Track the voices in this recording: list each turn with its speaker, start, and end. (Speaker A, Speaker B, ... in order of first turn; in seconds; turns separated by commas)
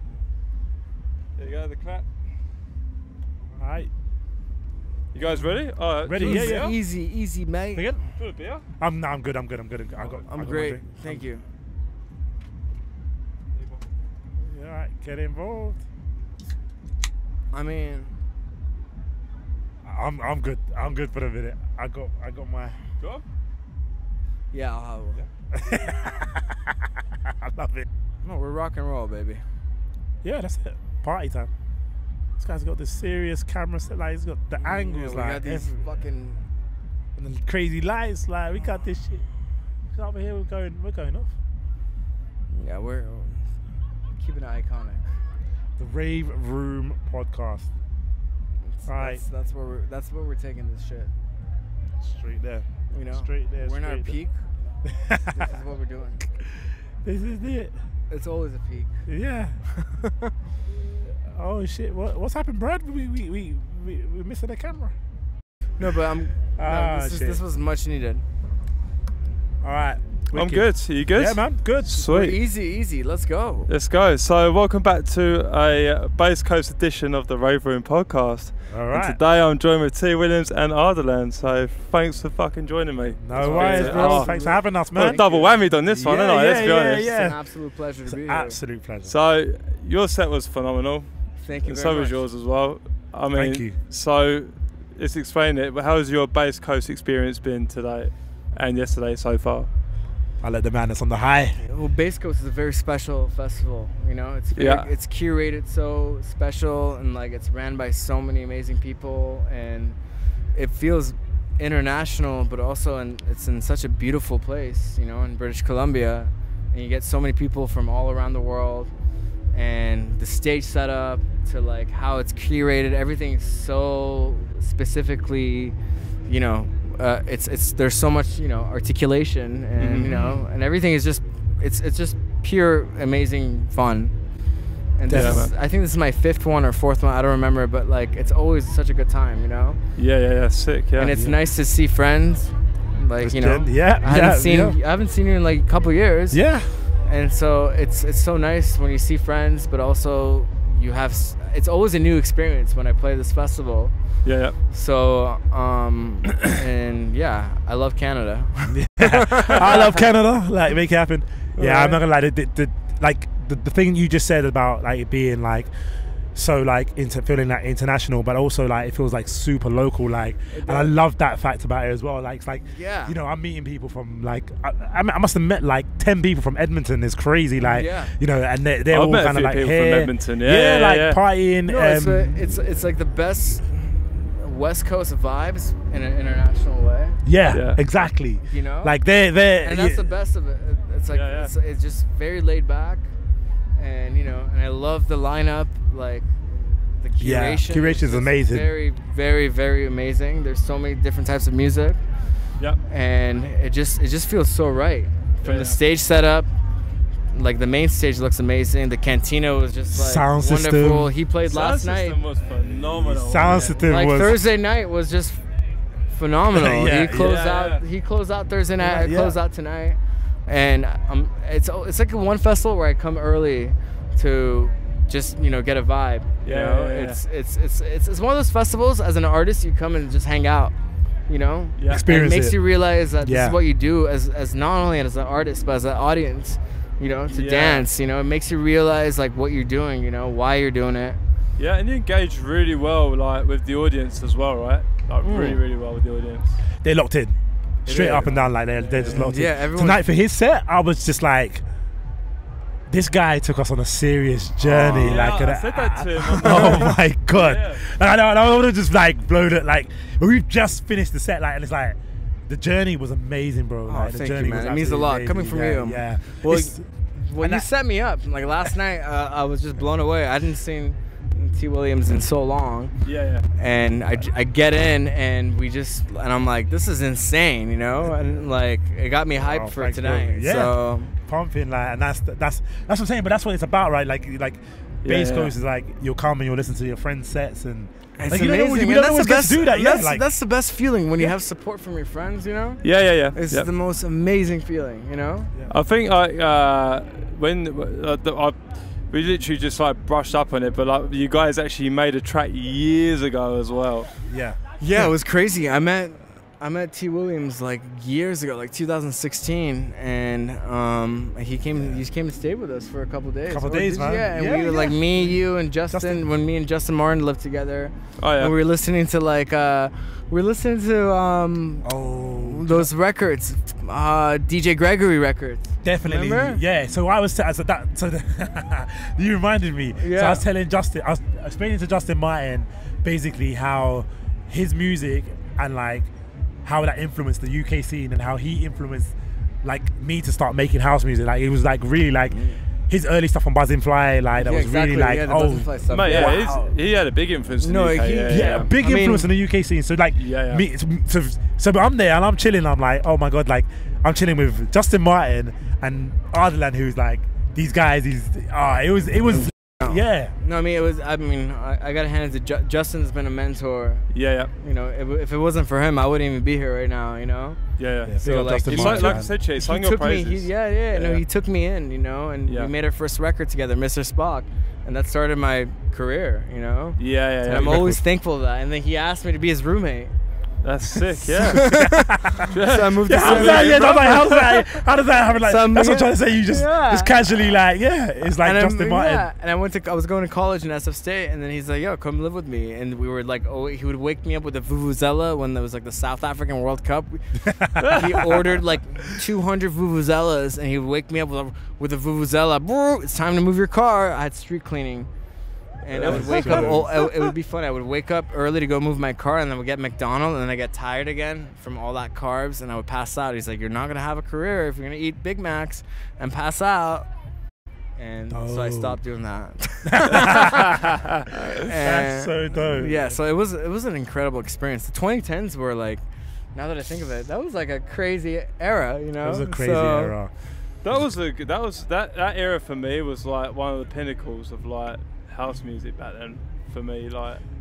Speaker A: 1.4-2.1, Speaker B: 3.5-3.9, Speaker A: 5.1-6.7, Speaker B: 6.0-6.8, Speaker C: 6.2-8.0, Speaker A: 8.2-8.6, Speaker B: 8.8-11.2, Speaker C: 10.3-11.4, Speaker B: 14.4-15.8, Speaker C: 17.5-18.1, Speaker B: 19.8-22.8, Speaker C: 24.5-25.2, Speaker B: 25.5-27.9, Speaker C: 28.2-29.4, Speaker B: 30.2-31.5, Speaker B: 32.4-35.7, Speaker C: 34.6-36.5, Speaker B: 37.2-39.2, Speaker B: 39.9-41.3, Speaker C: 42.5-43.5, Speaker C: 44.2-45.1, Speaker B: 45.8-47.7, Speaker C: 48.6-51.1, Speaker B: 48.9-49.2, Speaker B: 52.0-54.1, Speaker C: 52.9-54.4, Speaker B: 54.9-55.5, Speaker C: 55.3-56.2, Speaker B: 57.0-57.7, Speaker C: 58.1-58.9, Speaker B: 59.1-59.6, Speaker C: 59.6-60.3, Speaker B: 61.0-64.9, Speaker C: 65.8-68.2, Speaker B: 66.6-67.4, Speaker B: 69.6-72.1, Speaker A: 70.3-72.4, Speaker C: 72.0-73.7, Speaker A: 73.7-84.3, Speaker B: 78.7-79.2, Speaker B: 83.2-87.4, Speaker C: 83.3-85.5, Speaker A: 85.0-87.1, Speaker C: 87.1-88.6, Speaker B: 88.1-89.1, Speaker A: 89.0-91.1, Speaker C: 91.4-92.2, Speaker A: 91.6-99.7, Speaker B: 93.3-93.8, Speaker B: 100.4-101.6, Speaker C: 101.6-110.0, Speaker A: 104.5-104.9, Speaker C: 110.5-118.9, Speaker C: 119.5-125.8, Speaker C: 126.3-134.2, Speaker A: 129.8-130.2, Speaker B: 130.1-130.4, Speaker C: 135.0-139.8, Speaker B: 135.1-135.5, Speaker A: 135.1-135.5, Speaker A: 140.0-141.2, Speaker C: 141.0-153.9, Speaker B: 141.1-141.4, Speaker B: 143.2-144.8, Speaker B: 146.3-146.8, Speaker A: 154.2-154.6, Speaker C: 154.7-159.7, Speaker B: 158.7-165.7, Speaker C: 161.6-162.0, Speaker B: 166.3-182.4, Speaker C: 170.5-170.9, Speaker C: 172.7-173.2, Speaker C: 177.6-178.1, Speaker A: 178.9-181.2, Speaker C: 181.7-187.2, Speaker B: 187.2-190.0, Speaker A: 187.5-187.8, Speaker C: 188.4-189.0, Speaker C: 189.6-193.1, Speaker A: 191.1-191.5, Speaker C: 193.8-202.0, Speaker B: 197.2-198.7, Speaker C: 202.9-206.5, Speaker A: 205.4-205.8, Speaker C: 207.3-212.2, Speaker B: 209.9-211.1, Speaker A: 211.4-213.8, Speaker B: 212.9-214.4, Speaker C: 213.8-215.4, Speaker C: 216.1-230.7, Speaker B: 216.5-217.4, Speaker A: 217.2-217.8, Speaker B: 218.8-219.4, Speaker A: 226.4-227.2, Speaker C: 231.3-241.2, Speaker A: 231.8-232.1, Speaker B: 231.9-232.6, Speaker B: 233.2-233.6, Speaker A: 237.3-237.9, Speaker A: 241.6-246.6, Speaker C: 245.2-245.6, Speaker B: 246.8-251.6, Speaker C: 247.9-248.3, Speaker A: 247.9-249.3, Speaker C: 249.0-250.1, Speaker B: 252.9-266.9, Speaker A: 254.7-257.8, Speaker C: 254.8-255.3, Speaker C: 263.9-273.0, Speaker B: 267.4-267.7, Speaker A: 273.1-273.5, Speaker C: 273.6-281.1, Speaker B: 278.0-278.4, Speaker B: 279.4-290.2, Speaker A: 285.0-285.5, Speaker C: 288.2-295.5, Speaker A: 292.8-293.7, Speaker A: 295.7-304.1, Speaker B: 304.2-305.1, Speaker C: 304.8-326.6, Speaker B: 311.8-312.0, Speaker B: 313.5-315.4, Speaker B: 315.9-316.2, Speaker A: 318.2-318.5, Speaker B: 321.8-322.9, Speaker B: 325.8-336.1, Speaker C: 330.0-330.4, Speaker B: 336.6-346.7, Speaker C: 342.3-342.6, Speaker C: 344.4-346.5, Speaker A: 345.9-348.7, Speaker C: 347.6-349.3, Speaker B: 348.3-360.4, Speaker A: 350.2-350.6, Speaker C: 359.8-367.6, Speaker A: 364.1-364.5, Speaker A: 367.8-371.2, Speaker B: 368.1-369.3, Speaker C: 368.2-380.1, Speaker A: 372.5-372.7, Speaker A: 377.0-377.9, Speaker B: 377.5-378.0, Speaker A: 380.6-381.7, Speaker C: 381.3-383.9, Speaker B: 381.4-389.3, Speaker A: 382.5-384.7, Speaker C: 385.4-387.2, Speaker C: 388.4-405.1, Speaker B: 397.4-398.4, Speaker A: 397.8-398.5, Speaker C: 405.8-417.1, Speaker A: 405.9-407.2, Speaker B: 405.9-406.9, Speaker C: 418.0-426.0, Speaker B: 418.3-419.0, Speaker B: 419.9-420.8, Speaker A: 420.7-421.2, Speaker B: 421.7-423.2, Speaker C: 426.5-430.1, Speaker B: 429.2-430.3, Speaker A: 430.8-437.4